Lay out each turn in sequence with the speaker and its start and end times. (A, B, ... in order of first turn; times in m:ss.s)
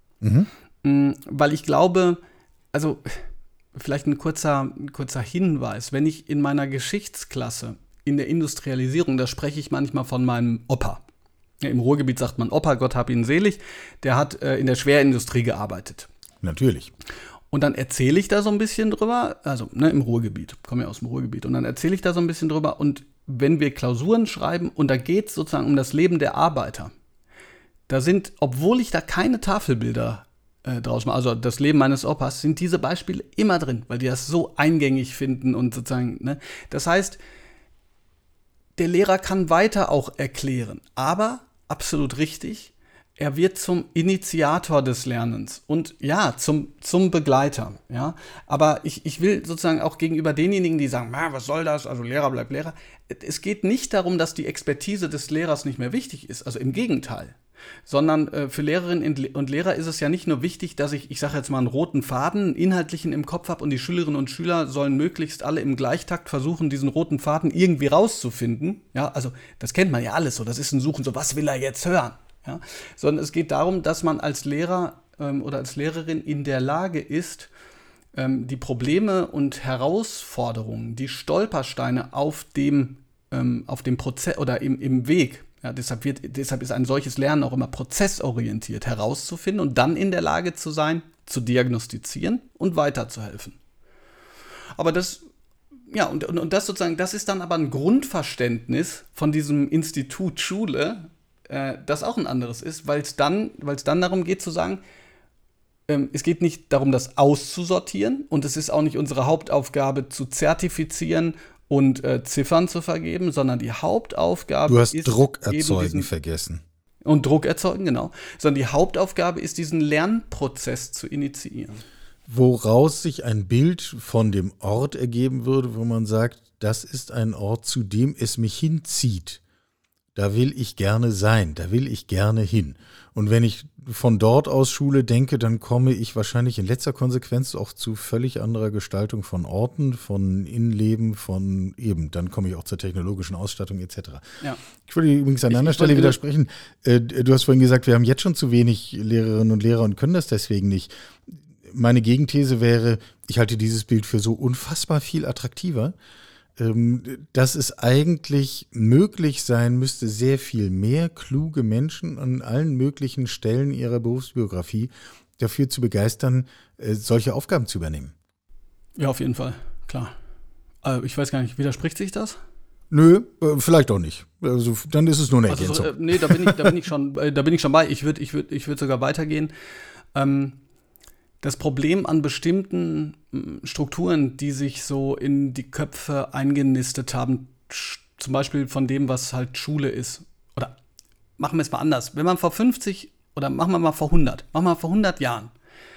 0:00.2-0:00.5 A
0:00.8-0:02.2 B
0:02.7-0:11.0 B
0:11.6-0:16.1 B
0:16.4-0:16.9 A
0:17.5-0:26.9 B
0:27.9-0:37.2 B
0:38.8-0:57.3 B
0:57.9-1:17.5 B
1:18.1-1:33.6 B
1:34.8-1:35.2 B
1:35.9-1:44.8 B
1:45.9-1:56.1 B
1:54.7-1:56.6 A
1:57.0-2:01.8 B
2:02.3-2:09.4 A
2:10.1-2:24.2 A
2:24.8-2:35.9 A
2:25.5-2:26.2 B
2:36.6-2:48.1 A
2:49.0-2:50.1 B
2:50.8-2:52.4 B
2:52.9-2:56.7 A
2:55.5-2:59.5 B
3:00.1-3:00.6 B
3:01.4-3:10.7 B
3:11.4-3:15.5 B